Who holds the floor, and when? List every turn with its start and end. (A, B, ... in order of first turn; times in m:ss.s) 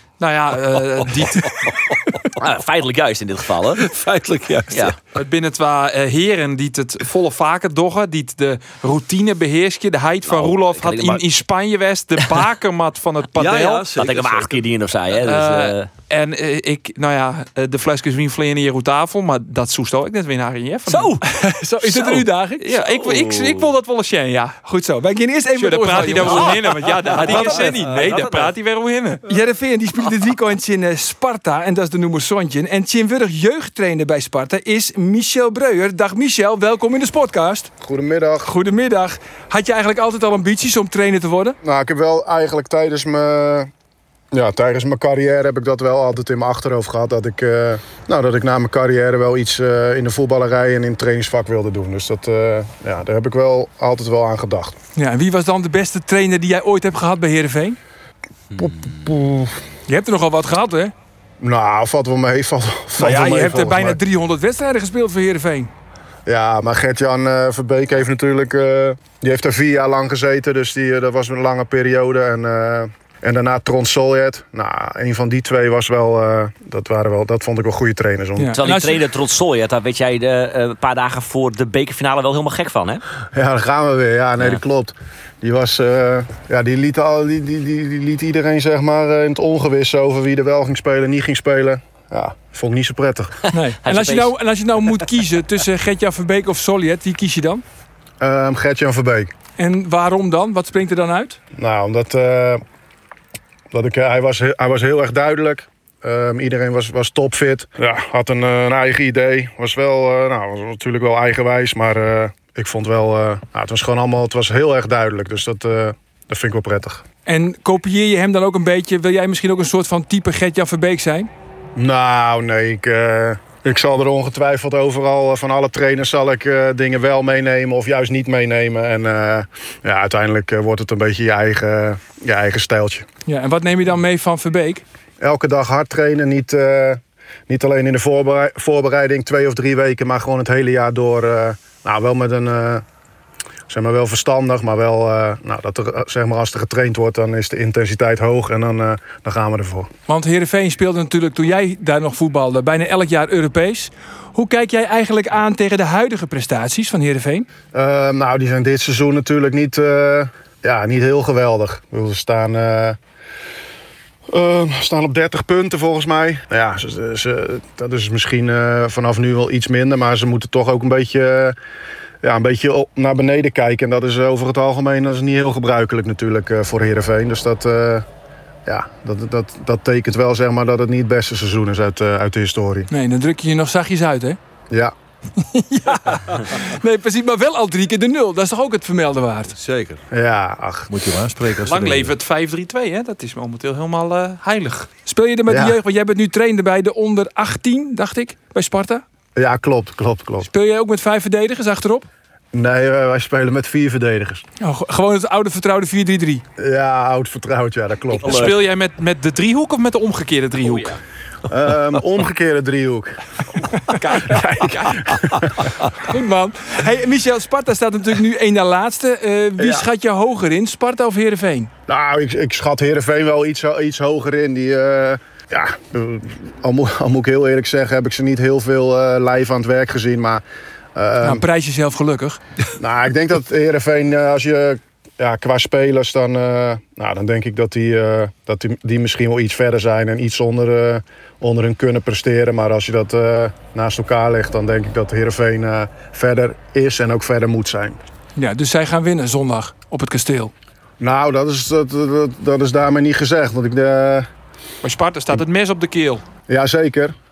0:00.2-0:01.5 A
0:01.6-0:03.9 B
0:03.7-0:05.0 C
0:04.7-0:05.0 B
0:05.1-0:13.9 A
0:10.2-0:11.2 B
0:13.4-0:14.6 C
0:13.9-0:15.9 B
0:15.2-0:21.2 A
0:20.9-0:21.2 B
0:21.2-0:22.7 D
0:22.0-0:24.6 A
0:22.8-0:23.7 B
0:24.6-0:27.7 D
0:25.5-0:29.2 A
0:26.0-0:28.5 B
0:27.2-0:27.9 C
0:29.2-0:37.7 D
0:37.8-0:38.5 E
0:38.4-0:41.6 D
0:41.6-0:43.7 E
0:44.3-0:54.7 E
0:55.0-0:57.8 D
0:58.6-0:59.5 E
0:59.9-1:00.9 D
1:01.4-1:04.0 E
1:03.0-1:05.7 D
1:06.3-1:18.6 E
1:18.4-1:19.0 D
1:18.6-1:23.0 B
1:23.3-1:33.3 E
1:33.5-1:37.6 D
1:33.8-1:34.3 B
1:38.2-1:39.3 E
1:39.6-1:41.4 D
1:41.6-1:42.6 E
1:43.7-1:57.0 E
1:57.2-2:01.3 D
2:01.8-2:13.0 E
2:13.3-2:14.8 D
2:15.2-2:22.8 E
2:23.7-2:29.9 E
2:30.1-2:37.5 D
2:37.7-2:43.0 E
2:44.3-2:51.6 E
2:52.2-2:58.0 E
2:58.7-3:02.9 E
3:02.9-3:04.4 D
3:05.4-3:09.5 D
3:09.5-3:10.0 C
3:10.1-3:10.9 E
3:10.9-3:12.1 C
3:11.6-3:14.9 A
3:15.1-3:19.0 D
3:15.5-3:15.8 E
3:19.4-3:20.5 E
3:20.4-3:22.1 D
3:22.5-3:24.4 E
3:24.6-3:26.4 D
3:26.6-3:28.5 E
3:28.2-3:31.0 A
3:28.2-3:28.5 B
3:30.6-3:31.0 B
3:31.5-3:33.2 E
3:33.9-3:35.7 E
3:33.9-3:34.7 D
3:36.0-3:41.7 D
3:39.6-3:39.8 E
3:41.9-3:50.4 E
3:50.9-3:51.4 E
3:51.2-3:52.4 D
3:52.8-4:08.0 E
4:08.4-4:10.5 D
4:11.0-4:14.3 E
4:14.8-4:16.2 A
4:16.5-4:17.1 E